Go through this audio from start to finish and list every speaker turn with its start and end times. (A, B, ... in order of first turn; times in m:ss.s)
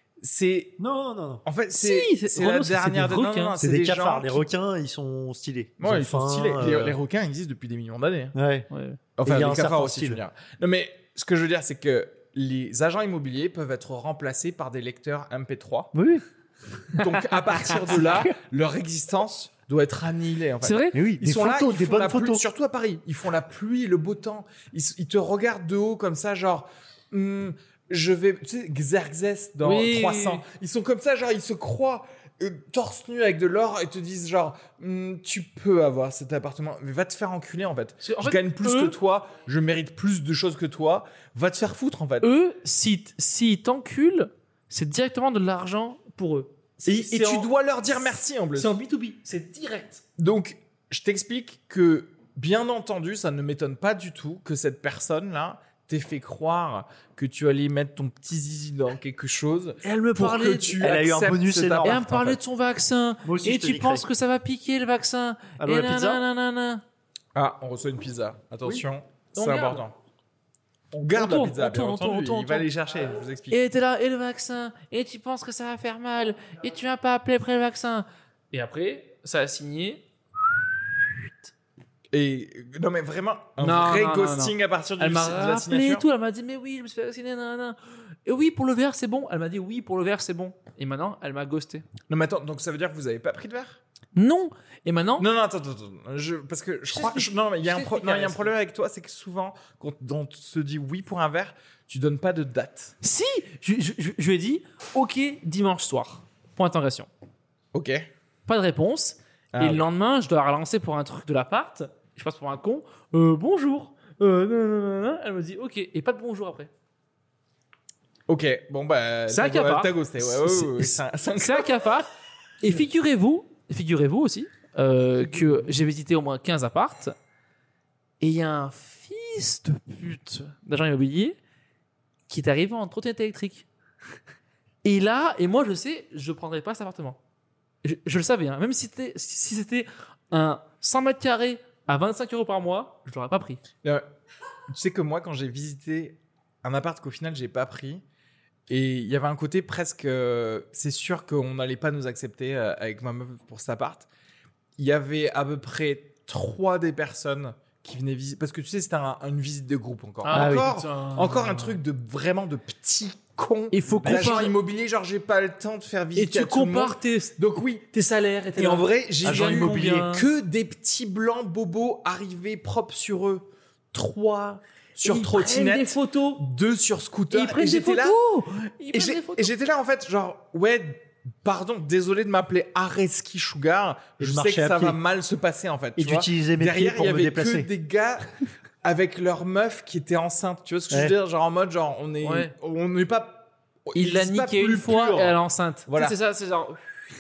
0:00.2-0:00.8 A
0:00.8-0:01.4 B
0:01.4-0:04.4 A
0:01.8-0:03.6 C
0:03.6-0:07.0 B
0:05.8-0:08.3 A
0:08.3-0:08.7 B
0:08.7-0:09.0 C
0:09.2-0:15.9 A
0:09.2-0:10.2 B
0:15.9-0:16.2 B
0:16.9-0:42.3 A
0:17.0-0:18.0 C
0:20.6-0:21.0 C
0:20.9-0:22.4 B
0:29.6-0:30.4 C
0:38.0-0:38.9 C
0:42.2-0:47.5 C
0:46.8-0:48.7 A
0:48.5-0:50.0 C
0:50.2-1:01.9 A
0:59.8-1:00.8 C
1:00.8-1:02.4 B
1:01.8-1:06.8 C
1:03.2-1:04.1 B
1:05.6-1:06.2 B
1:07.3-1:09.9 A
1:09.3-1:09.8 C
1:10.9-1:13.6 A
1:10.9-1:12.7 C
1:13.5-1:20.6 C
1:22.1-1:26.0 A
1:23.6-1:31.8 C
1:32.1-1:33.8 A
1:34.1-1:35.2 C
1:35.2-1:42.9 A
1:36.9-1:38.5 C
1:43.0-1:47.1 C
1:47.7-1:48.1 A
1:48.5-1:56.7 C
1:49.5-1:49.8 A
1:58.3-2:01.7 A
1:59.3-2:02.1 C
2:02.6-2:07.1 C
2:08.2-2:11.4 C
2:12.3-2:13.6 C
2:14.8-2:17.2 C
2:17.8-2:23.6 C
2:24.7-2:28.0 A
2:28.7-2:34.1 A
2:34.8-2:47.8 A
2:40.2-2:41.8 C
2:40.3-2:40.7 B
2:43.7-2:44.6 C
2:43.9-2:44.4 B
2:46.1-2:50.2 C
2:48.6-2:53.5 A
2:49.2-2:50.1 B
2:53.9-2:56.4 C
2:55.0-2:58.2 A
2:57.3-2:59.5 C
2:58.9-3:08.3 A
3:04.2-3:05.0 B
3:06.0-3:07.7 B
3:08.8-3:15.4 A
3:12.2-3:12.5 C
3:14.0-3:17.0 C
3:15.9-3:16.2 A